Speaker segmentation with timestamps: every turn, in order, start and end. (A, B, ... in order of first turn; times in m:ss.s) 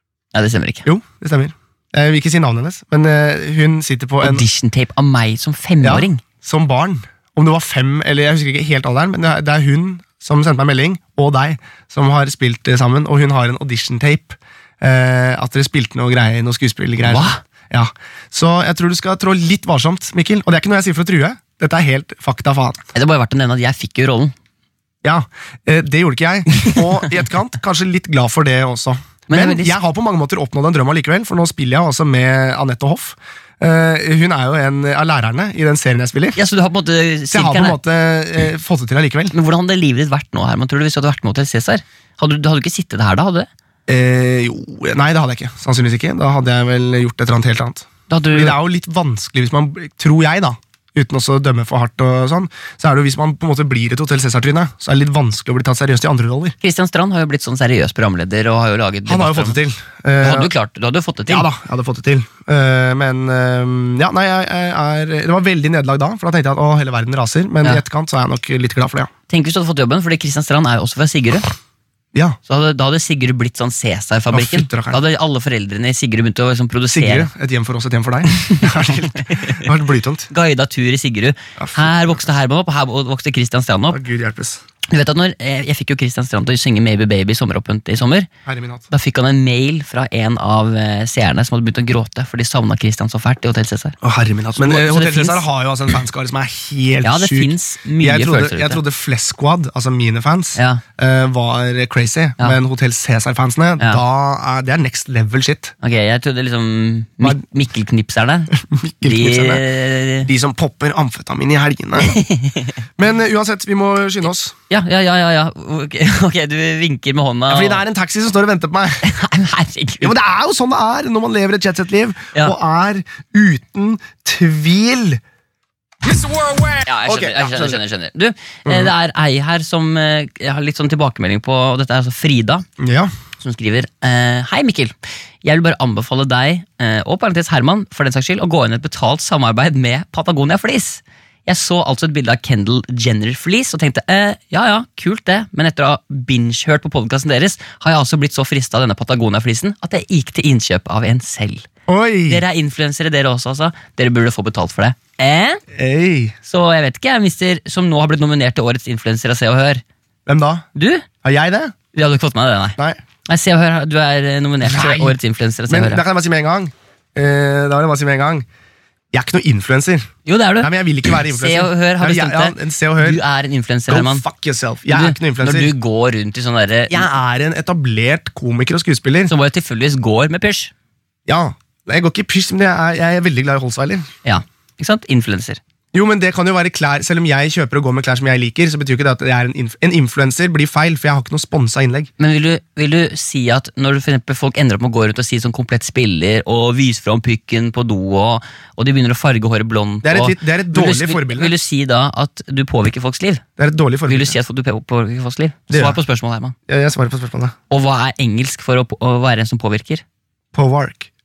0:00.3-0:00.8 A
0:00.8-0:04.4 B
0:04.2-0:06.2 A
0:05.8-0:22.8 B
0:17.0-0:17.4 A
0:22.9-0:24.3 A
0:25.0-0:36.4 B
0:29.3-0:29.8 A
0:36.4-0:37.8 A
0:37.3-0:39.3 B
0:39.3-0:43.5 A
0:43.9-0:56.6 B
0:48.1-0:48.6 A
0:56.6-0:59.6 A
0:59.1-1:00.5 B
1:00.2-1:01.5 A
1:01.3-1:09.1 B
1:09.3-1:11.5 A
1:12.5-1:17.3 A
1:14.3-1:15.0 B
1:16.9-1:20.3 B
1:19.2-1:19.6 A
1:20.3-1:24.0 A
1:21.6-1:22.2 B
1:23.9-1:24.6 B
1:24.9-1:28.3 A
1:28.4-1:28.9 B
1:28.9-1:34.0 A
1:34.0-1:45.7 B
1:34.6-1:35.4 A
1:37.0-1:38.8 A
1:40.6-1:40.8 A
1:45.8-1:48.5 A
1:48.5-1:49.6 B
1:49.0-1:50.3 A
1:50.2-1:52.2 B
1:52.0-1:52.7 A
1:53.0-1:54.5 B
1:54.7-1:57.8 A
1:57.5-1:59.0 B
1:59.0-2:00.1 A
2:00.0-2:05.2 B
2:06.0-2:07.8 B
2:06.8-2:12.6 A
2:08.6-2:08.9 B
2:12.8-2:13.1 B
2:13.4-2:31.7 A
2:31.9-2:32.4 B
2:32.3-2:35.6 A
2:35.7-2:36.3 B
2:36.4-2:39.8 A
2:40.2-2:40.6 B
2:40.7-2:41.0 A
2:41.2-2:41.7 B
2:41.9-2:46.0 A
2:44.6-2:45.2 B
2:45.7-2:48.4 B
2:49.1-2:53.2 B
2:50.2-2:54.2 A
2:53.9-2:55.7 B
2:54.9-2:57.1 A
2:56.9-2:59.3 B
2:59.3-3:00.7 A
3:01.3-3:04.1 B
3:04.2-3:05.6 A
3:05.9-3:12.1 B
3:12.2-3:23.4 A
3:20.0-3:21.5 B
3:23.6-3:24.4 B
3:24.1-3:26.5 A
3:25.7-3:26.0 B
3:26.7-3:27.5 B
3:27.7-3:30.0 A
3:30.5-3:31.1 B